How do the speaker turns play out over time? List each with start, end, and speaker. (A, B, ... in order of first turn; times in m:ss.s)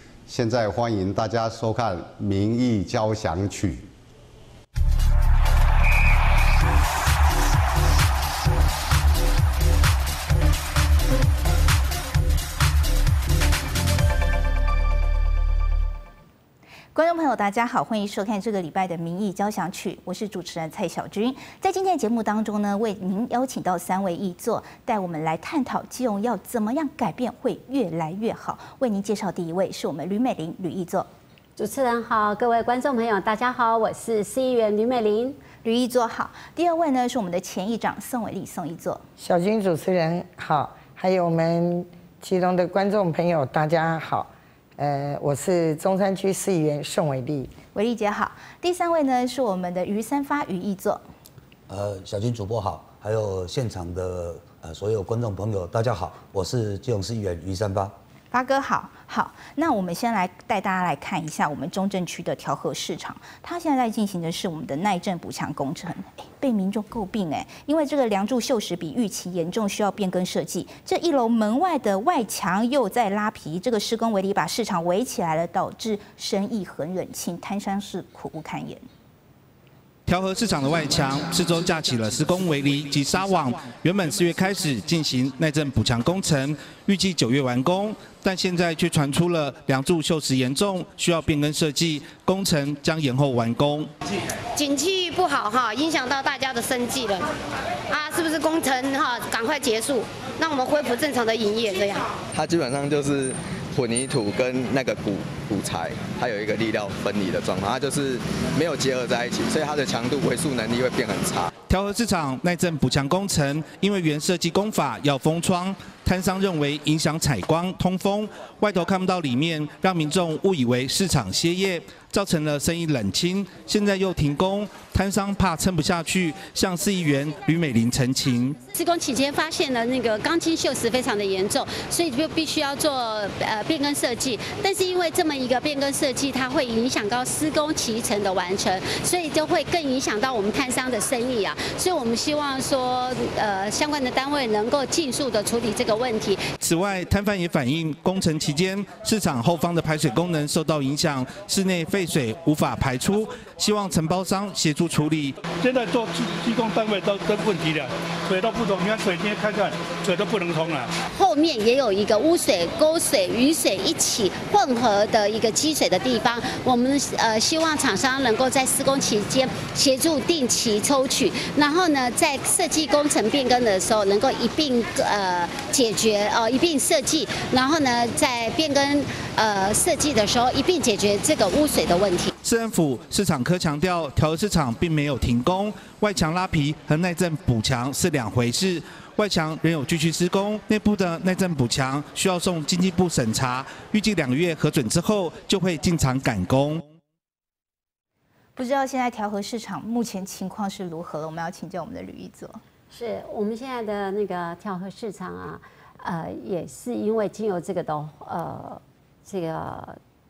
0:00.3-0:03.9 A
0:16.9-0:31.1 B
0:31.6-0:35.4 C
0:35.6-0:39.0 B
0:39.2-0:47.5 D
0:47.7-0:51.0 B
0:51.7-0:57.9 E
0:58.3-1:18.8 B
1:20.1-1:33.9 F
1:34.5-1:37.3 G
1:37.9-1:42.1 G
1:42.3-1:51.5 H
1:51.7-2:08.6 F
2:08.7-2:26.5 C
2:26.6-2:35.4 F
2:35.6-2:40.9 I
2:41.1-3:02.3 C
3:02.4-3:16.8 F
3:18.6-3:22.6 B
3:22.9-3:30.0 C